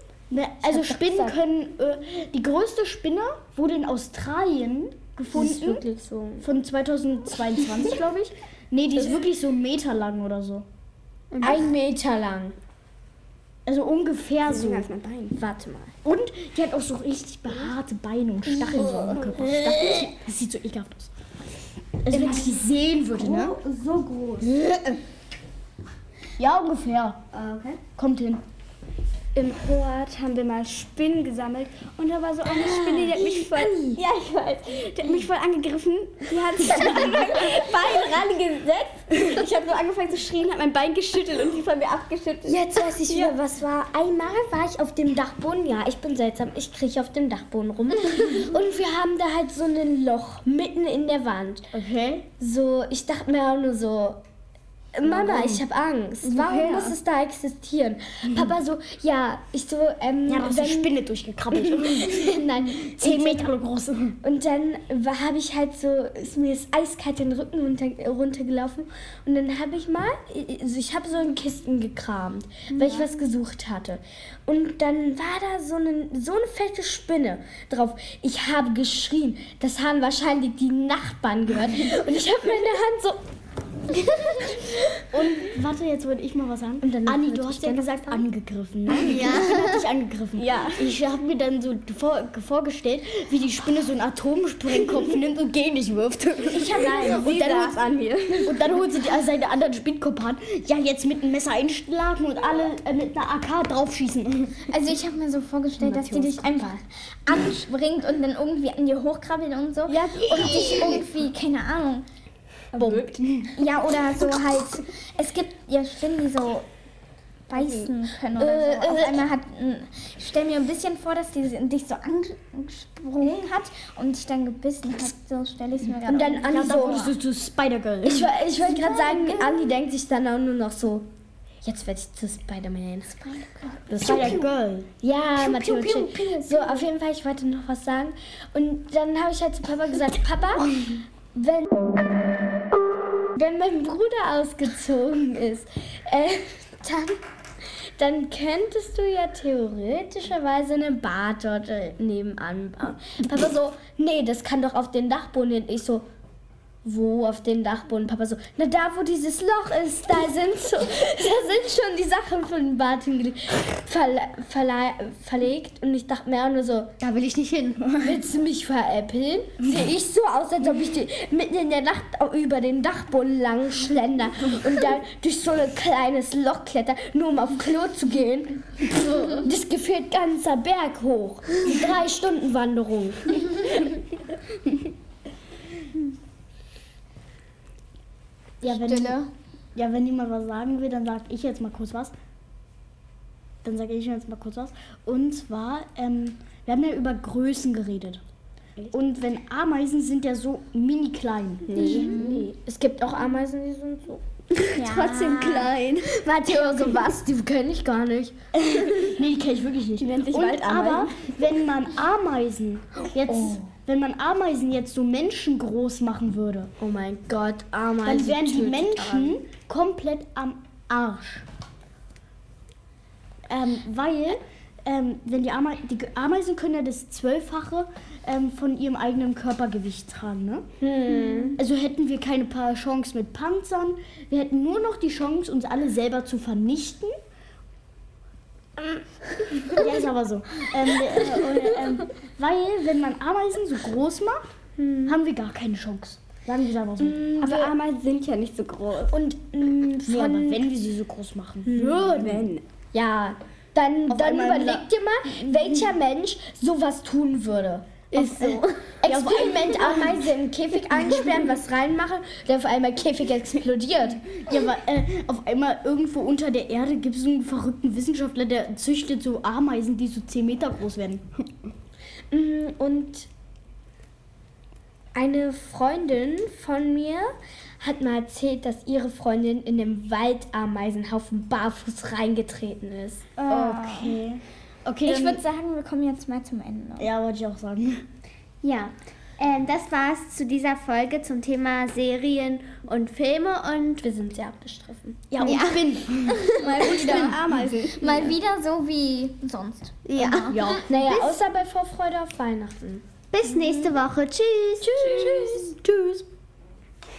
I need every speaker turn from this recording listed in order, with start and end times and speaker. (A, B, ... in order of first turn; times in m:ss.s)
0:00.3-0:05.8 A
0:00.6-0:01.4 B
0:05.3-0:06.5 B
0:06.4-0:10.6 A
0:11.3-0:11.7 C
0:11.4-0:12.6 B
0:13.7-0:14.9 A
0:14.5-0:15.4 D
0:15.3-0:15.9 B
0:16.0-0:21.1 A
0:18.7-0:20.1 B
0:22.0-0:23.6 A
0:22.1-0:22.6 B
0:23.4-0:23.7 C
0:26.4-0:27.2 A
0:27.3-0:27.8 C
0:28.0-0:28.4 A
0:29.4-0:43.4 D
0:32.5-0:34.0 B
0:42.4-0:51.7 B
0:51.7-0:52.3 A
0:52.4-0:54.2 B
0:54.9-1:00.9 B
0:55.0-0:55.6 A
0:56.2-0:57.0 D
0:58.2-0:58.5 A
1:00.3-1:04.2 A
1:01.5-1:03.5 B
1:04.2-1:23.2 B
1:24.3-1:24.8 B
1:25.0-1:37.7 A
1:26.8-1:28.2 B
1:29.0-1:29.8 C
1:30.4-1:30.9 D
1:36.6-1:38.7 D
1:36.7-1:37.6 B
1:38.4-1:44.7 A
1:44.7-1:52.0 E
1:45.8-1:46.8 B
1:49.9-1:51.0 A
1:52.8-1:53.2 B
1:52.8-1:53.5 A
1:53.6-1:56.7 E
1:57.5-2:07.2 E
1:58.4-1:59.3 B
2:06.0-2:07.2 B
2:06.4-2:08.4 A
2:08.0-2:11.1 B
2:11.6-2:14.5 B
2:13.9-2:16.8 A
2:15.0-2:20.8 B
2:21.3-2:22.5 B
2:23.3-2:27.2 B
2:27.8-2:36.0 B
2:36.8-2:46.9 B
2:47.0-2:48.2 C
2:48.0-2:58.8 B
2:59.3-3:04.0 B
3:08.6-3:09.2 A
3:08.6-3:09.3 E
3:09.8-3:12.1 A
3:13.6-3:18.2 A
3:18.9-3:22.2 A
3:21.7-3:24.2 B
3:21.8-3:22.5 E
3:24.6-3:26.2 A
3:24.7-3:25.8 E
3:26.0-3:28.4 B
3:28.6-3:36.7 A
3:30.0-3:31.3 D
3:33.3-3:33.6 B
3:36.8-3:39.4 B
3:38.0-3:41.5 A
3:43.5-3:50.7 A
3:50.8-3:51.6 B
3:51.6-3:57.1 A
3:59.6-4:04.4 A
4:04.8-4:05.2 B
4:05.1-4:07.3 A
4:07.0-4:07.8 B
4:07.4-4:09.2 D
4:09.1-4:10.7 B
4:10.1-4:12.6 A
4:11.7-4:24.4 B
4:14.1-4:14.8 A
4:18.1-4:20.2 A
4:24.4-4:31.4 A
4:32.3-4:33.3 B
4:35.2-4:43.3 B
4:43.4-4:44.2 E
4:43.4-4:45.4 A
4:45.0-4:47.1 E
4:47.0-4:48.0 A
4:48.6-4:54.0 C
4:54.0-4:55.2 B
4:55.3-4:58.3 A
4:55.4-4:56.0 C
4:56.3-5:00.7 E
4:56.6-4:58.3 D
5:00.1-5:01.4 C
5:00.5-5:00.9 A
5:00.8-5:03.1 B
5:03.3-5:05.1 C
5:04.8-5:05.7 B
5:04.8-5:06.2 A